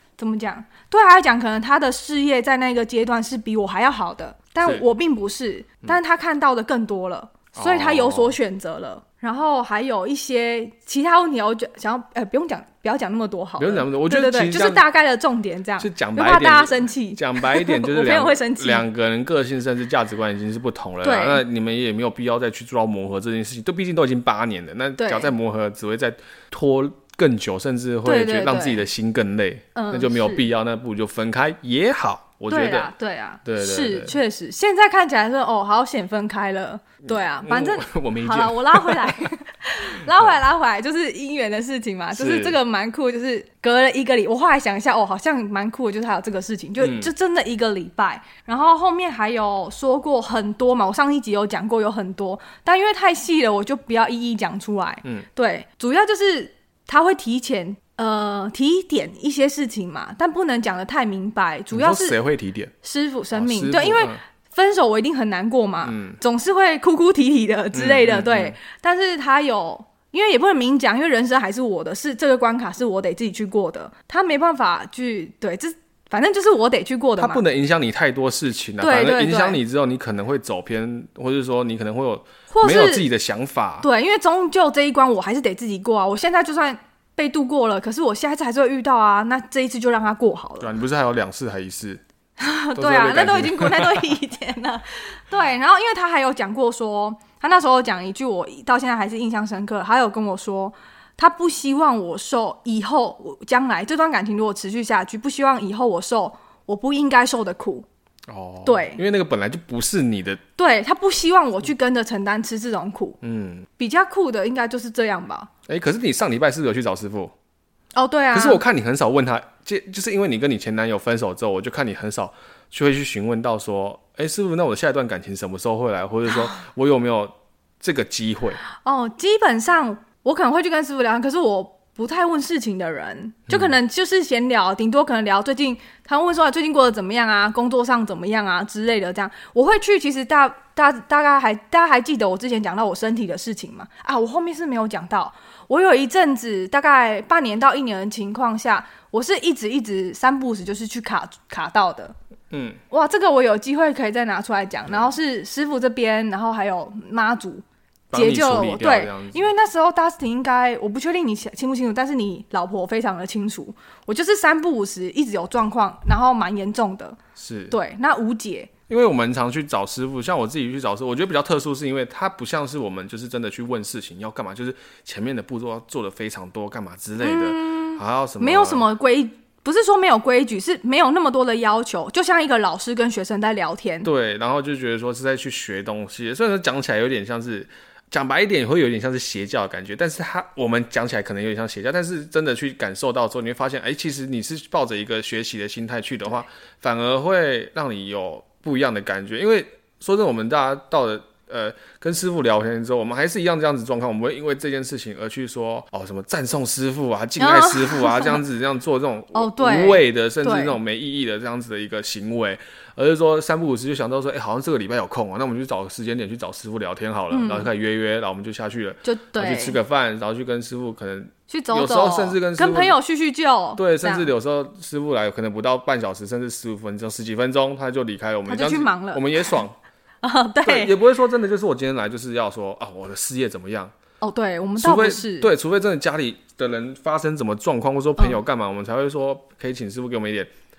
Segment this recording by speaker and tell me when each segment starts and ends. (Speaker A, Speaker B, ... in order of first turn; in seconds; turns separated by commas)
Speaker A: 0.2-18.9, Speaker B: 7.5-8.3, Speaker B: 13.6-14.8, Speaker B: 15.8-32.9, Speaker A: 21.0-21.4, Speaker A: 25.0-25.3, Speaker A: 28.1-28.8, Speaker A: 29.8-30.5, Speaker A: 32.5-62.2, Speaker B: 33.5-34.1, Speaker B: 37.1-39.3, Speaker B: 42.1-42.6, Speaker B: 46.8-47.1, Speaker B: 61.7-62.7, Speaker A: 62.8-77.4, Speaker B: 63.3-64.2, Speaker B: 65.8-66.2, Speaker B: 67.7-68.5, Speaker B: 77.2-83.9, Speaker A: 78.8-79.6, Speaker A: 82.5-83.1, Speaker A: 83.8-90.7, Speaker B: 90.6-92.0, Speaker A: 92.4-107.9, Speaker B: 92.8-94.0, Speaker B: 108.3-110.4, Speaker A: 108.7-109.0, Speaker A: 110.6-113.2, Speaker B: 113.2-113.7, Speaker A: 113.8-115.5, Speaker B: 115.7-117.3, Speaker A: 117.9-118.6, Speaker B: 118.3-128.6, Speaker A: 128.7-152.2, Speaker B: 152.5-152.8, Speaker A: 152.9-167.2, Speaker B: 158.1-159.5, Speaker B: 167.4-167.8, Speaker A: 167.7-168.7, Speaker B: 168.9-178.9, Speaker A: 177.2-184.1, Speaker B: 184.0-223.0, Speaker A: 207.4-208.4, Speaker A: 209.3-210.8, Speaker A: 217.3-217.7, Speaker A: 219.0-219.8, Speaker A: 221.5-224.3, Speaker B: 223.8-229.8, Speaker A: 228.5-229.6, Speaker A: 230.2-230.9, Speaker B: 230.6-233.9, Speaker A: 234.2-235.5, Speaker B: 234.8-240.5